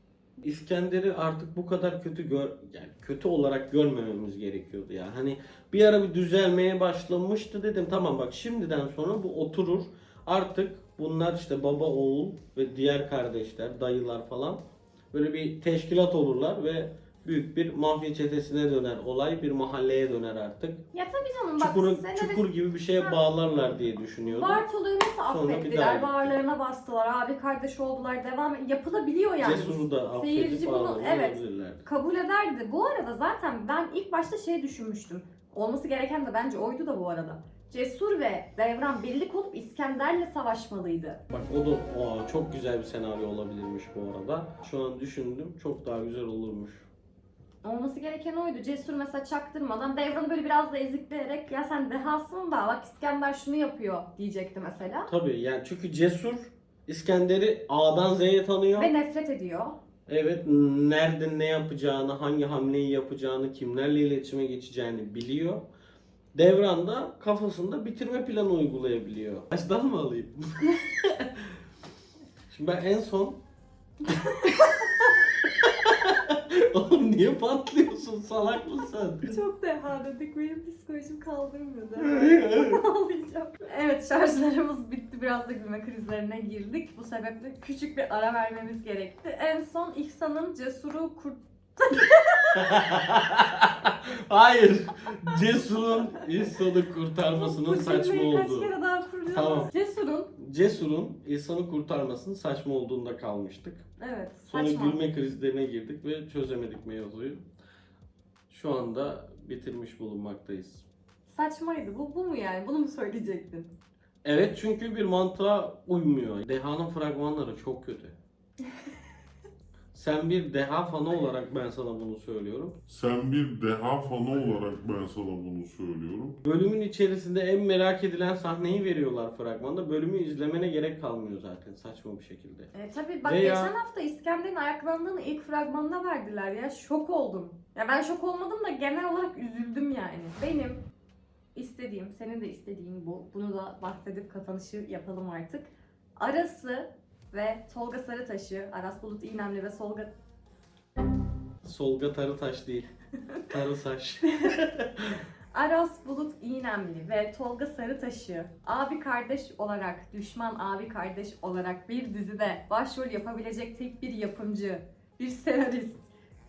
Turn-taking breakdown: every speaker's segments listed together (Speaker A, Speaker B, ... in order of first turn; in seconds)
Speaker A: 0.4-20.8, 21.6-24.6, 25.2-26.4, 29.4-31.8, 41.3-46.9, 55.1-58.9, 60.1-65.7, 66.3-71.6, 72.5-73.4, 74.5-79.4, 82.0-82.8, 92.5-98.7, 99.3-99.7, 100.3-103.9, 104.5-107.4, 108.5-110.8, 114.2-118.2, 119.9-122.8, 126.4-132.7, 133.2-133.7, 151.6-152.9, 153.5-155.2
Speaker B: 20.9-22.4, 24.3-41.2, 47.6-55.1, 58.7-59.8, 74.2-74.5, 79.2-92.7, 97.3-100.3, 104.0-105.0, 111.3-113.7, 132.7-140.8, 141.5-150.1, 154.3-154.5, 155.5-166.1
Speaker C: 122.9-126.4